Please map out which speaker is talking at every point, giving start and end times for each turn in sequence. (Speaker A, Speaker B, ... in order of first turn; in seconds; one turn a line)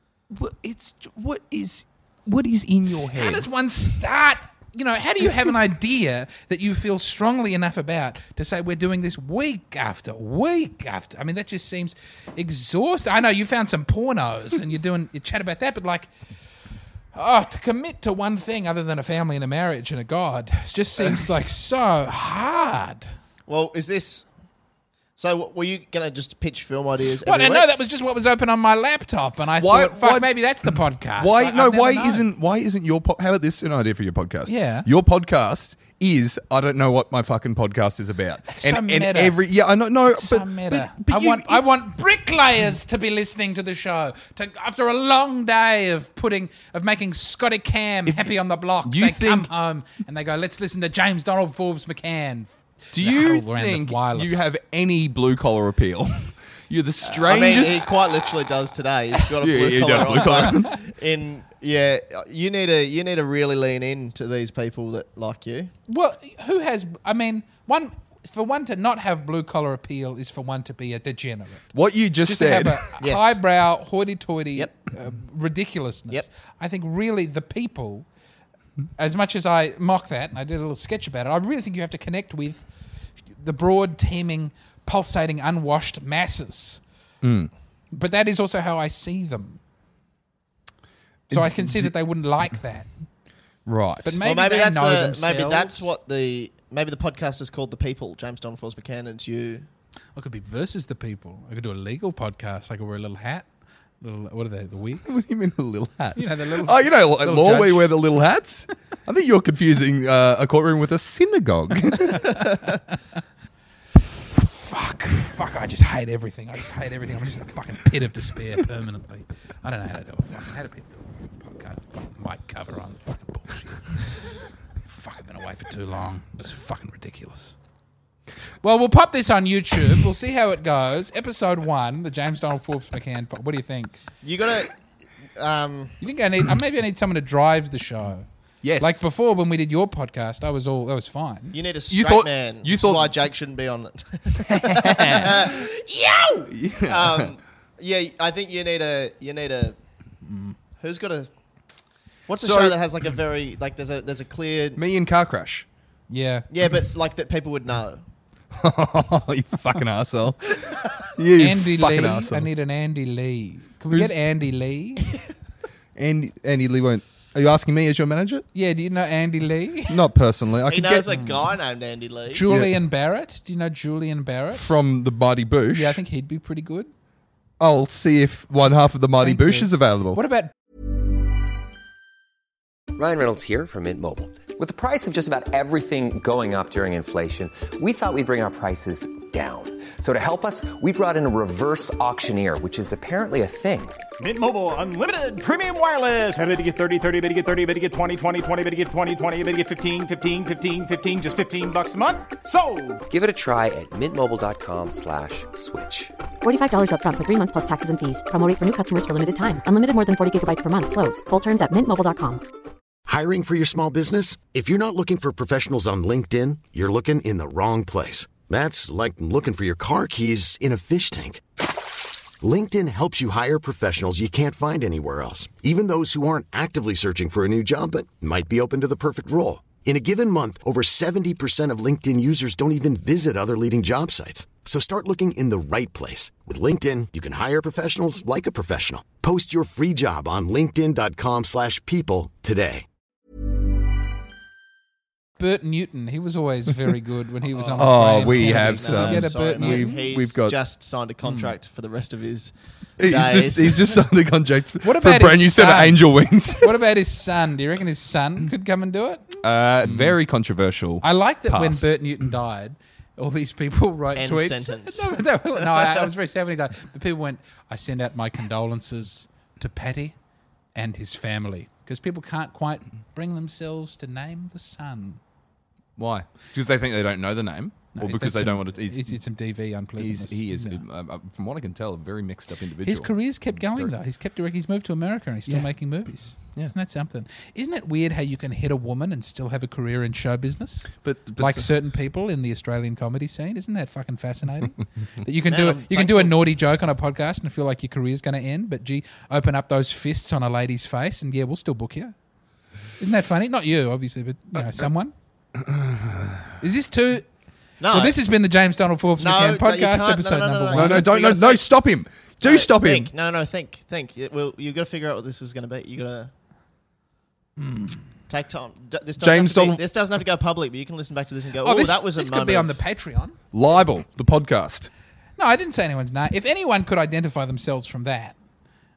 Speaker A: 0.3-3.5
Speaker B: 3.1-16.1
Speaker B: 17.1-23.1
Speaker C: 23.5-24.3
Speaker C: 25.1-27.7
Speaker B: 27.2-32.2
Speaker A: 29.6-41.6
Speaker B: 34.5-34.9
Speaker B: 38.5-39.4
Speaker B: 40.1-54.5
Speaker A: 48.8-49.5
Speaker A: 52.9-57.9
Speaker C: 57.1-65.7
Speaker A: 59.4-60.8
Speaker B: 65.9-71.7
Speaker A: 71.7-72.9
Speaker B: 72.2-78.0
Speaker C: 73.0-73.4
Speaker B: 79.0-82.7
Speaker B: 83.3-86.8
Speaker A: 87.2-87.5
Speaker B: 87.9-89.6
Speaker A: 91.3-91.9
Speaker B: 91.3-92.9
Speaker A: 93.7-94.1
Speaker B: 94.0-95.9
Speaker C: 94.2-99.7
Speaker B: 100.2-103.5
Speaker B: 104.0-105.2
Speaker A: 105.1-112.5
Speaker B: 106.2-107.9
Speaker B: 114.3-124.3
Speaker B: 124.9-127.5
Speaker B: 128.6-134.0
Speaker C: 134.2-134.8
Speaker C: 135.4-136.0
Speaker B: 136.0-138.3
Speaker A: 138.6-139.0
Speaker B: 138.8-141.5
Speaker C: 141.5-149.8
Speaker A: 141.9-143.2
Speaker A: 144.8-145.4
Speaker B: 145.0-145.2
Speaker A: 146.5-147.3
Speaker B: 150.2-150.6
Speaker C: 150.8-151.3
Speaker C: 152.3-154.8
Speaker A: 152.4-152.8
Speaker A: 154.8-155.7
Speaker B: 156.1-156.5
Speaker C: 156.5-158.0
Speaker A: 158.5-162.5
Speaker B: 161.4-165.2
Speaker A: 165.9-168.4
Speaker B: 168.5-169.9
Speaker A: 169.9-171.1
Speaker C: 170.7-172.4
Speaker B: 171.1-171.3
Speaker B: 172.3-174.8
Speaker A: 174.5-176.0
Speaker B: 175.7-176.9
Speaker A: 177.6-180.2
Speaker B: 179.2-180.5
Speaker D: 182.9-194.0
Speaker E: 194.2-203.0
Speaker D: 203.1-206.1
Speaker F: 206.4-212.4
Speaker G: 213.1-221.4
Speaker G: 222.4-242.8
Speaker B: 245.4-249.9
Speaker C: 247.5-254.0
Speaker A: 247.8-250.6
Speaker B: 251.2-251.5
Speaker A: 253.0-256.8
Speaker B: 254.8-260.2
Speaker A: 259.4-261.9
Speaker B: 261.0-270.1
Speaker C: 264.1-266.1
Speaker B: 270.8-275.2
Speaker A: 276.0-279.2
Speaker B: 277.9-280.8
Speaker A: 280.0-283.9
Speaker B: 282.8-302.1
Speaker A: 285.5-286.7
Speaker A: 291.0-291.7
Speaker C: 295.5-296.4
Speaker B: 303.0-305.1
Speaker A: 305.6-306.4
Speaker B: 306.6-307.3
Speaker C: 307.8-308.2
Speaker B: 307.9-311.1
Speaker C: 309.2-311.7
Speaker A: 310.7-313.1
Speaker C: 312.4-316.3
Speaker B: 317.6-318.0
Speaker C: 318.3-322.8
Speaker A: 319.2-319.8
Speaker B: 321.6-323.3
Speaker A: 323.5-324.9
Speaker B: 325.4-328.4